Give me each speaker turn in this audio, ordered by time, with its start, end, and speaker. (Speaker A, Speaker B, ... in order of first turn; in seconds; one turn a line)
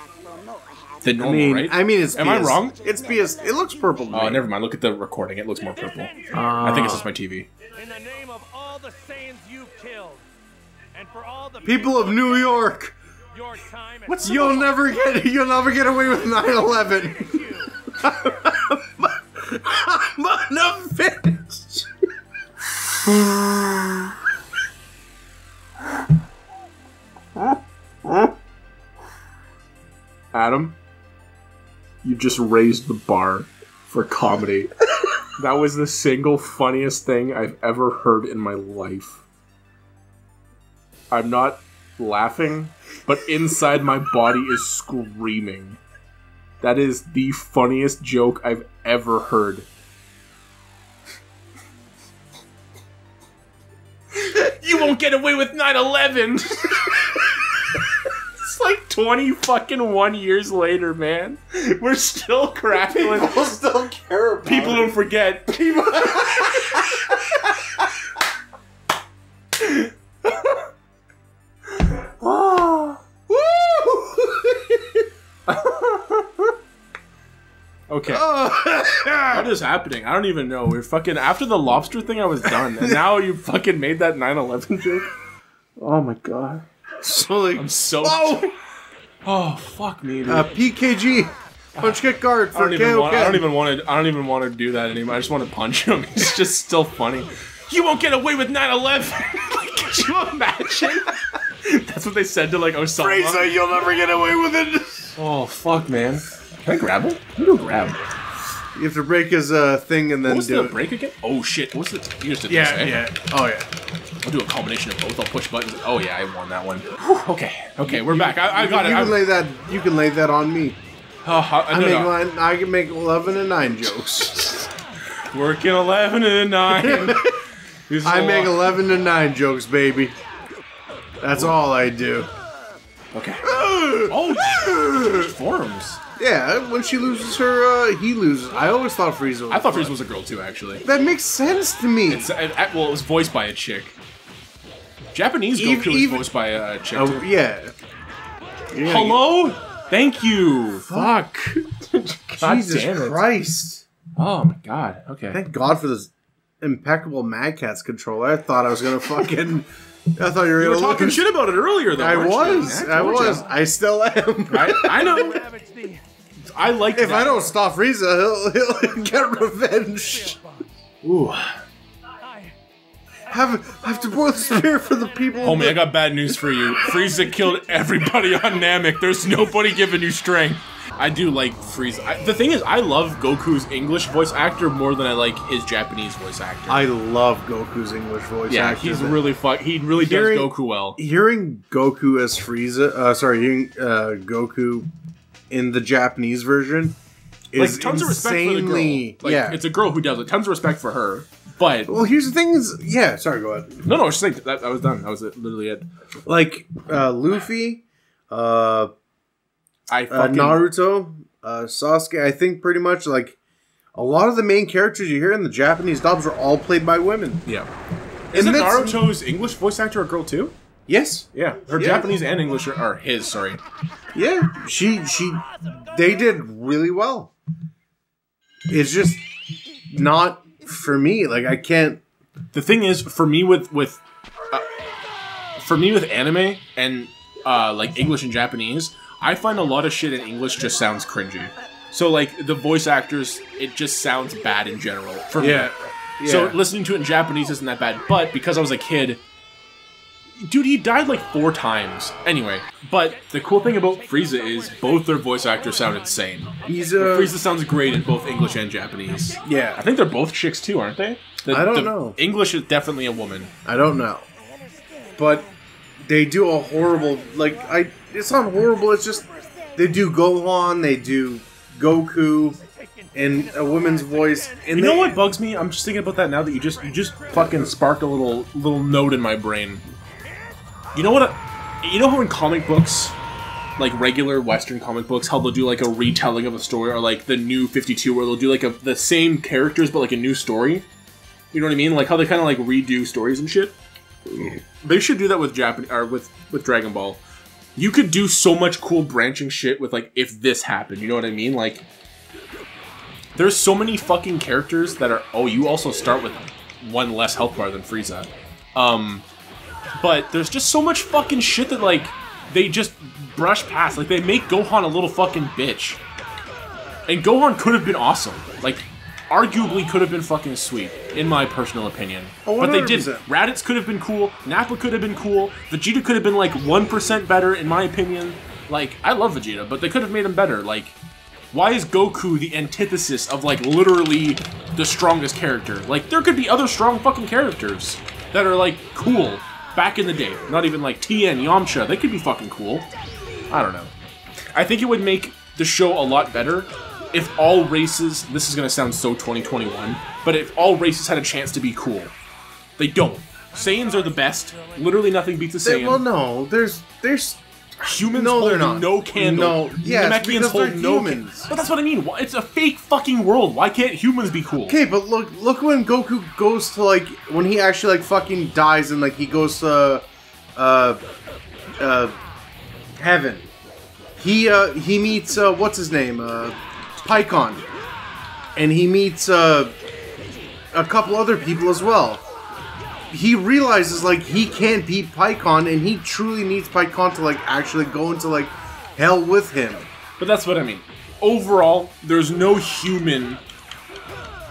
Speaker A: 1.0-2.8
Speaker B: 1.1-4.4
Speaker A: 4.1-7.5
Speaker C: 6.0-6.4
Speaker B: 6.3-7.0
Speaker C: 7.7-10.2
Speaker C: 10.9-12.6
Speaker B: 11.6-12.9
Speaker C: 13.3-15.2
Speaker A: 14.1-14.8
Speaker B: 14.2-21.9
Speaker C: 15.9-18.0
Speaker B: 23.0-24.0
Speaker A: 30.3-30.8
Speaker A: 32.0-34.8
Speaker A: 35.4-39.2
Speaker A: 41.1-45.8
Speaker A: 46.6-49.7
Speaker A: 54.2-57.3
Speaker A: 58.4-63.4
Speaker B: 62.9-64.9
Speaker A: 64.4-66.8
Speaker B: 65.5-67.5
Speaker A: 69.6-69.9
Speaker A: 72.2-73.0
Speaker B: 73.3-74.8
Speaker A: 75.5-76.5
Speaker A: 77.9-78.3
Speaker B: 78.1-79.5
Speaker A: 79.3-85.1
Speaker A: 85.8-86.6
Speaker B: 87.0-88.5
Speaker A: 87.5-88.5
Speaker A: 89.2-90.5
Speaker B: 90.2-93.5
Speaker A: 91.8-103.5
Speaker B: 103.0-105.2
Speaker A: 105.2-108.0
Speaker B: 108.8-110.8
Speaker A: 110.2-113.0
Speaker B: 112.5-113.7
Speaker A: 114.2-119.2
Speaker B: 117.8-120.8
Speaker A: 121.2-122.1
Speaker B: 121.7-124.4
Speaker A: 125.3-127.4
Speaker B: 126.7-127.4
Speaker A: 127.9-128.7
Speaker B: 128.0-130.2
Speaker B: 131.2-132.3
Speaker A: 133.1-133.4
Speaker B: 133.4-135.3
Speaker A: 134.1-136.0
Speaker B: 136.2-139.9
Speaker A: 139.5-140.8
Speaker B: 140.8-142.3
Speaker A: 142.1-143.9
Speaker A: 145.1-147.3
Speaker B: 145.5-146.3
Speaker B: 146.9-147.7
Speaker B: 148.7-149.2
Speaker A: 148.8-153.2
Speaker B: 150.9-151.1
Speaker B: 152.4-153.8
Speaker A: 154.2-155.4
Speaker B: 155.3-161.2
Speaker A: 160.6-163.5
Speaker B: 161.9-165.4
Speaker C: 162.4-163.6
Speaker A: 164.5-165.4
Speaker C: 164.9-166.0
Speaker A: 166.5-167.4
Speaker B: 166.9-170.4
Speaker C: 169.1-170.7
Speaker A: 171.0-171.6
Speaker C: 172.2-172.5
Speaker B: 173.3-175.8
Speaker A: 175.4-186.8
Speaker B: 186.7-189.2
Speaker A: 188.5-191.0
Speaker B: 189.9-194.9
Speaker B: 195.5-197.0
Speaker B: 197.5-199.6
Speaker A: 197.6-201.9
Speaker B: 201.9-203.8
Speaker A: 203.8-205.9
Speaker B: 206.2-208.9
Speaker A: 209.9-210.7
Speaker B: 210.1-213.4
Speaker B: 213.9-217.4
Speaker A: 217.4-217.7
Speaker B: 218.3-219.1
Speaker A: 218.3-220.5
Speaker B: 220.9-222.1
Speaker A: 221.3-223.6
Speaker B: 224.1-227.3
Speaker B: 228.7-229.2
Speaker B: 229.9-232.0
Speaker A: 232.5-234.7
Speaker A: 235.6-245.7
Speaker B: 245.4-246.6
Speaker A: 246.2-249.2
Speaker A: 250.4-263.5
Speaker C: 254.1-255.9
Speaker B: 256.6-257.4
Speaker B: 259.4-259.8
Speaker B: 261.5-262.2
Speaker B: 263.6-264.2
Speaker B: 265.2-265.5
Speaker B: 266.0-272.6
Speaker C: 272.8-274.8
Speaker B: 273.1-275.2
Speaker A: 274.7-279.8
Speaker C: 277.0-277.4
Speaker A: 280.9-283.1
Speaker A: 283.8-290.9
Speaker A: 291.5-293.8
Speaker A: 294.4-297.2
Speaker A: 297.8-301.9
Speaker A: 303.4-309.2
Speaker A: 310.0-316.0
Speaker A: 317.1-331.0
Speaker B: 322.4-323.2
Speaker A: 331.5-342.9
Speaker A: 343.5-343.9
Speaker A: 344.5-352.1
Speaker A: 352.8-356.0
Speaker B: 355.6-357.4
Speaker A: 357.8-364.8
Speaker B: 358.1-361.5
Speaker B: 364.7-370.0
Speaker B: 370.6-371.0
Speaker B: 371.8-372.1
Speaker B: 373.0-373.5
Speaker B: 374.2-377.6
Speaker B: 378.6-379.8
Speaker B: 380.7-382.2
Speaker B: 383.1-389.9
Speaker A: 390.2-393.4